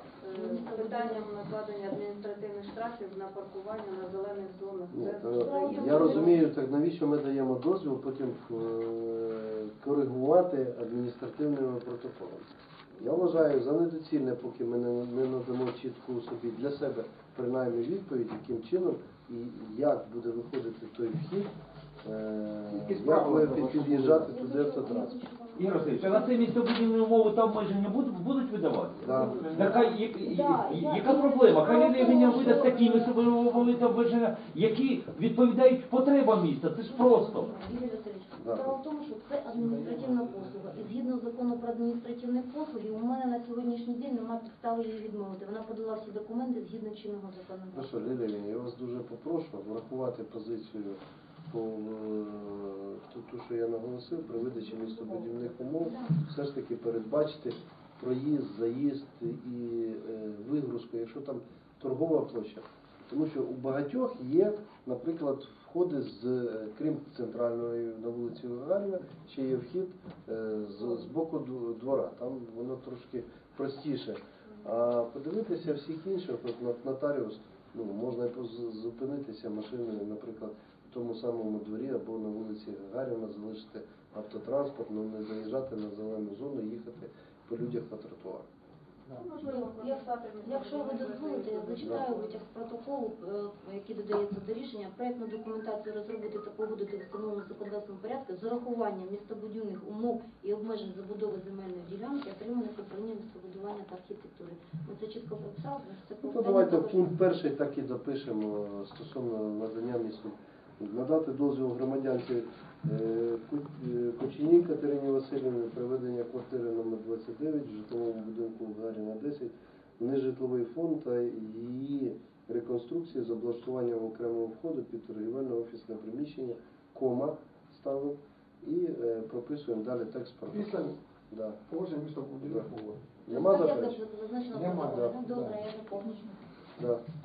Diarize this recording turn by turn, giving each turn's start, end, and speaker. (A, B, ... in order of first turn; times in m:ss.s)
0:00.2-0:06.4 A
0:00.3-0:01.2 B
0:04.9-0:21.5 C
0:05.3-0:06.4 B
0:22.0-0:25.2 C
0:22.7-0:24.3 D
0:24.2-0:26.5 B
0:25.6-0:37.5 E
0:29.0-0:29.6 C
0:29.0-0:33.2 B
0:36.9-0:48.1 B
0:38.4-0:38.8 C
0:39.7-0:40.3 D
0:47.7-1:28.5 C
0:55.8-0:56.2 B
1:29.2-1:32.4 A
1:29.4-1:47.1 B
1:31.8-1:32.1 C
1:46.2-2:11.6 C
2:10.5-2:11.0 D
2:11.6-2:13.2 D
2:12.4-2:12.7 C
2:13.2-2:14.0 C
2:13.3-2:16.4 B
2:14.5-2:15.6 D
2:16.8-2:17.0 C